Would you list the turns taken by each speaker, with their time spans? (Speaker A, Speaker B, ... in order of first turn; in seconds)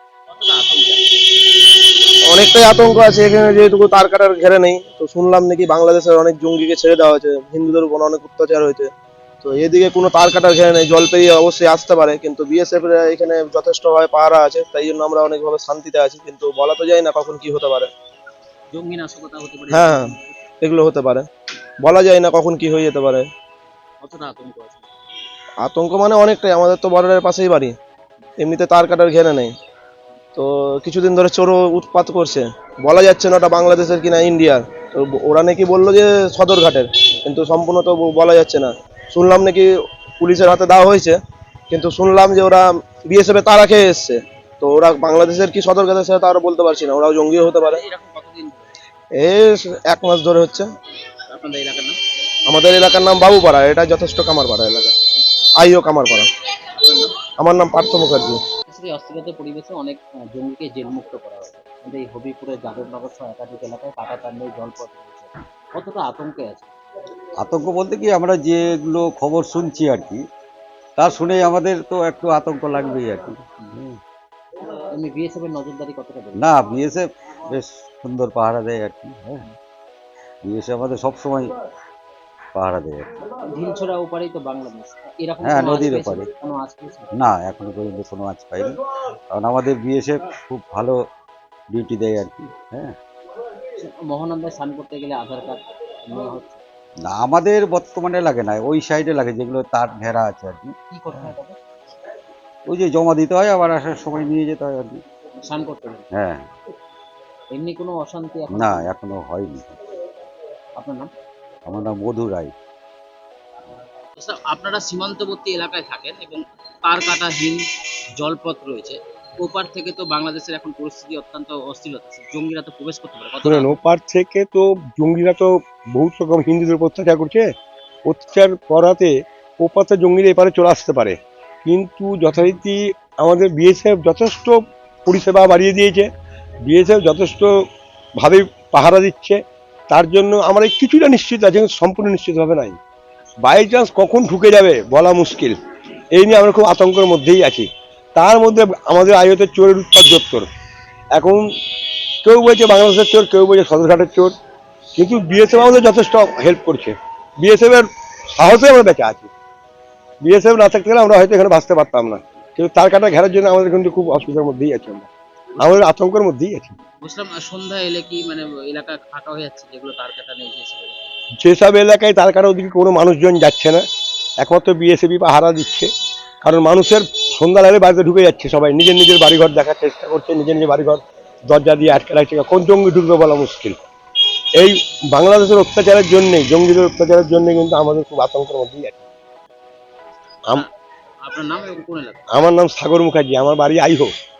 Speaker A: 0.3-1.2, 18.7-20.3, 24.0-24.9, 47.5-48.7, 51.3-52.0, 56.7-57.2, 58.7-66.7, 74.9-76.4, 83.3-87.1, 93.8-96.6, 100.9-101.6, 105.4-106.0, 107.5-108.9, 110.8-111.1, 114.2-117.6, 118.2-123.7, 167.0-171.1, 191.2-192.2
Speaker B: 2.3-8.9, 9.4-17.9, 19.7-20.1, 20.6-21.3, 21.8-23.3, 25.6-27.8, 28.4-29.5, 30.4-41.2, 41.7-47.8, 49.2-50.7, 52.5-54.9, 55.6-56.3, 57.4-58.4
Speaker C: 67.4-70.2, 71.0-74.0, 76.3-79.4, 80.4-81.5, 82.5-83.1, 85.4-86.3, 87.1-88.8, 89.3-91.0, 91.7-93.0, 97.0-100.8, 102.7-105.0, 106.1-106.5, 108.5-109.8, 111.7-112.5
Speaker D: 123.4-127.5, 128.1-136.1, 136.7-137.6, 138.2-142.8, 143.4-145.6, 146.1-150.4, 151.1-151.5, 152.2-154.3, 155.0-159.3, 160.2-166.7, 171.4-173.8, 174.4-175.9, 176.4-183.8, 184.5-189.0, 192.3-194.1